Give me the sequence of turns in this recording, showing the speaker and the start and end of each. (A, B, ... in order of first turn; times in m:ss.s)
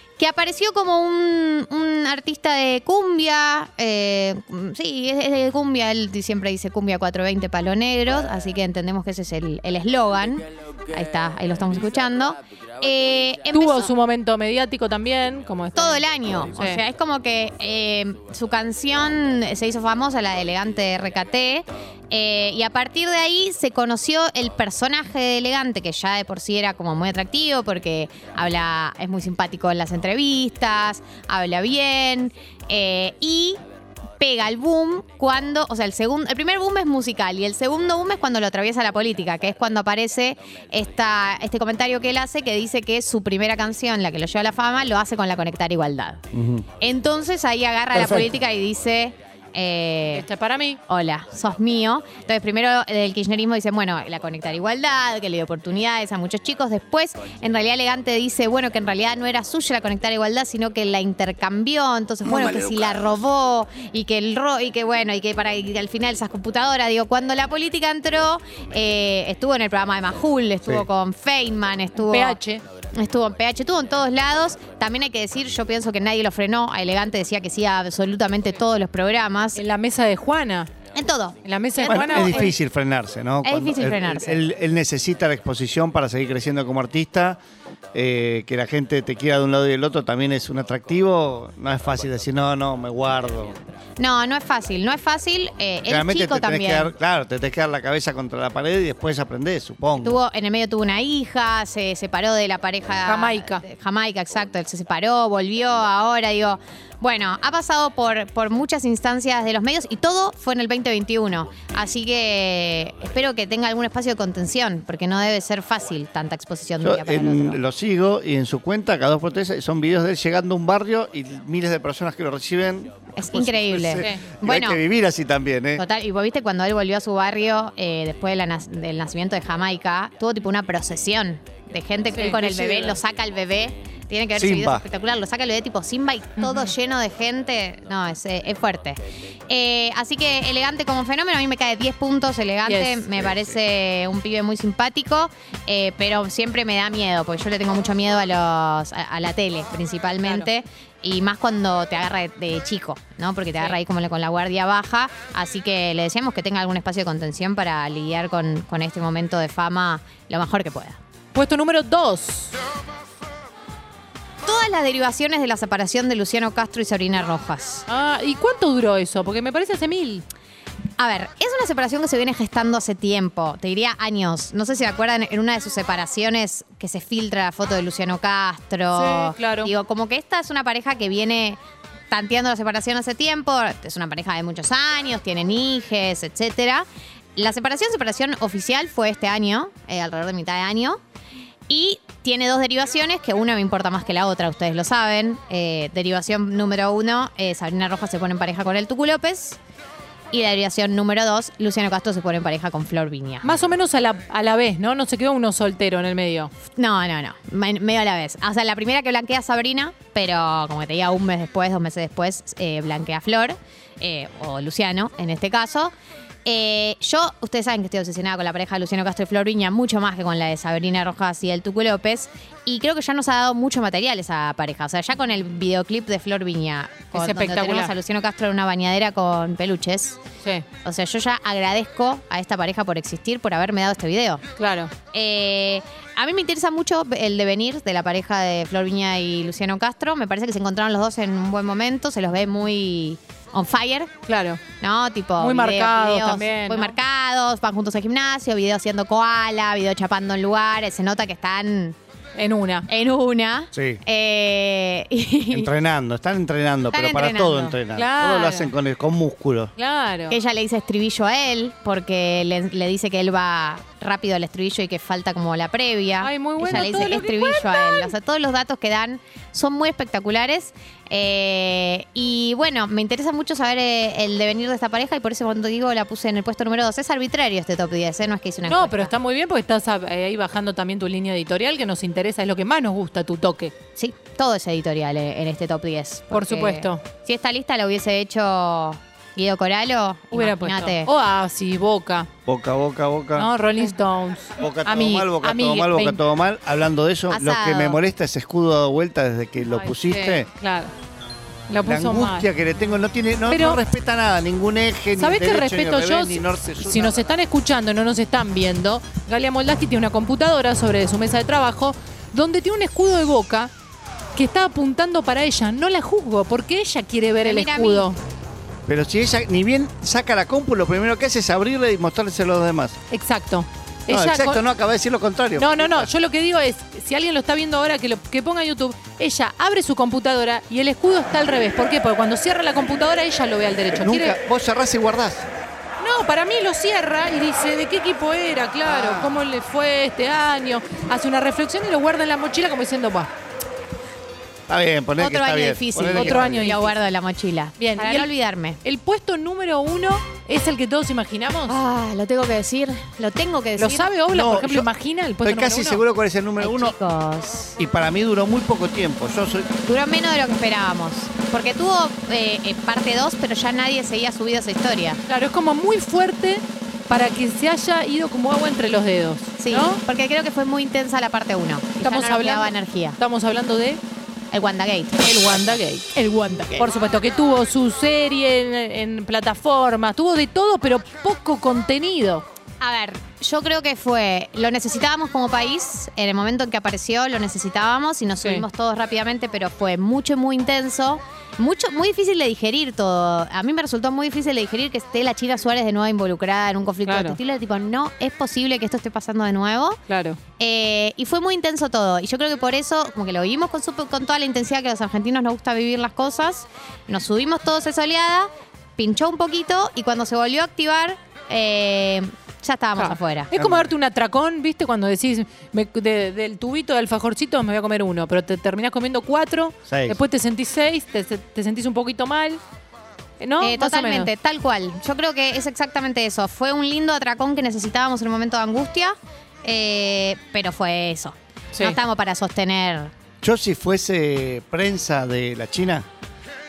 0:00.2-0:13.9 A
0:13.5-0:16.0 B
0:15.8-0:33.6 A
0:16.6-0:16.8 B
0:34.2-0:46.2 A
0:46.3-0:46.6 C
0:46.8-0:50.3 A
0:47.9-0:48.3 C
0:50.1-0:50.8 B
0:50.9-1:12.4 A
1:12.0-1:12.6 B
1:12.9-1:19.6 A
1:19.6-1:20.7 B
1:20.9-1:22.5 A
1:21.4-1:22.5 B
1:21.8-1:27.4 C
1:23.4-1:24.4 A
1:27.9-1:33.6 C
1:34.0-1:36.9 A
1:35.9-1:40.2 C
1:40.0-1:57.6 A
1:43.1-1:43.6 B
1:56.8-2:05.8 C
2:03.2-2:04.8 A
2:05.8-2:41.0 A
2:12.1-2:12.9 B
2:14.4-2:14.8 C
2:16.4-2:16.7 B
2:22.7-2:23.0 B
2:23.2-2:23.6 C
2:41.3-2:42.5 B
2:44.4-2:47.9 A
2:47.9-2:50.2 B
2:51.0-3:11.0 A
2:58.9-2:59.7 B
3:11.7-3:19.6 A
3:20.3-3:23.5 A
3:23.4-3:26.5 B
3:26.7-3:35.9 A
3:36.4-3:50.2 A
3:47.1-3:47.9 B
3:50.8-3:54.4 A
3:54.6-3:54.9 B
3:55.1-4:04.1 A
4:04.3-4:04.6 B
4:04.8-4:12.0 A
4:05.4-4:07.0 B
4:12.4-4:12.9 B
4:12.9-4:15.7 A
4:13.7-4:14.0 C
4:15.5-4:19.7 C
4:16.9-4:17.8 A
4:17.9-4:18.7 B
4:19.8-4:20.4 B
4:20.3-4:39.1 A
4:26.2-4:28.1 B
4:38.7-4:43.7 B
4:44.0-4:51.1 A
4:46.3-4:47.0 B
4:50.3-4:52.3 B
4:52.5-4:53.5 C
4:53.4-4:56.2 B
4:54.6-5:00.5 C
4:57.3-4:58.0 A
4:59.6-5:00.9 B
5:01.7-5:02.5 B
5:01.8-5:07.2 C
5:03.5-5:03.8 B
5:05.2-5:13.7 B
5:14.4-5:18.2 B
5:17.4-5:18.1 A
5:18.9-5:23.0 C
5:23.1-5:24.6 B
5:24.1-5:26.1 C
5:25.6-5:34.4 B
5:33.9-5:35.5 C
5:36.0-5:43.3 B
5:38.8-5:39.3 C
5:44.7-5:46.7 C
5:45.2-5:48.8 A
5:46.1-5:47.0 B
5:47.8-5:48.3 B
5:48.8-5:51.8 B
5:51.7-5:54.1 A
5:53.8-5:56.0 B
5:54.3-5:54.9 C
5:55.4-5:57.0 C
5:56.6-5:57.8 A
5:57.8-5:59.7 C
5:59.9-6:05.2 A
6:05.3-6:10.0 B
6:09.6-6:13.2 A
6:12.0-6:14.0 B
6:14.5-6:15.5 A
6:15.2-6:16.2 B
6:16.2-6:16.9 A
6:16.7-6:22.4 B
6:22.8-6:40.0 A
6:37.1-6:37.4 B
6:40.1-6:40.4 B
6:40.6-6:53.5 A
6:53.0-7:02.6 B
6:53.5-6:53.9 C
6:59.9-7:00.2 C
7:03.4-7:04.3 B
7:03.6-7:13.1 A
7:13.4-7:16.1 C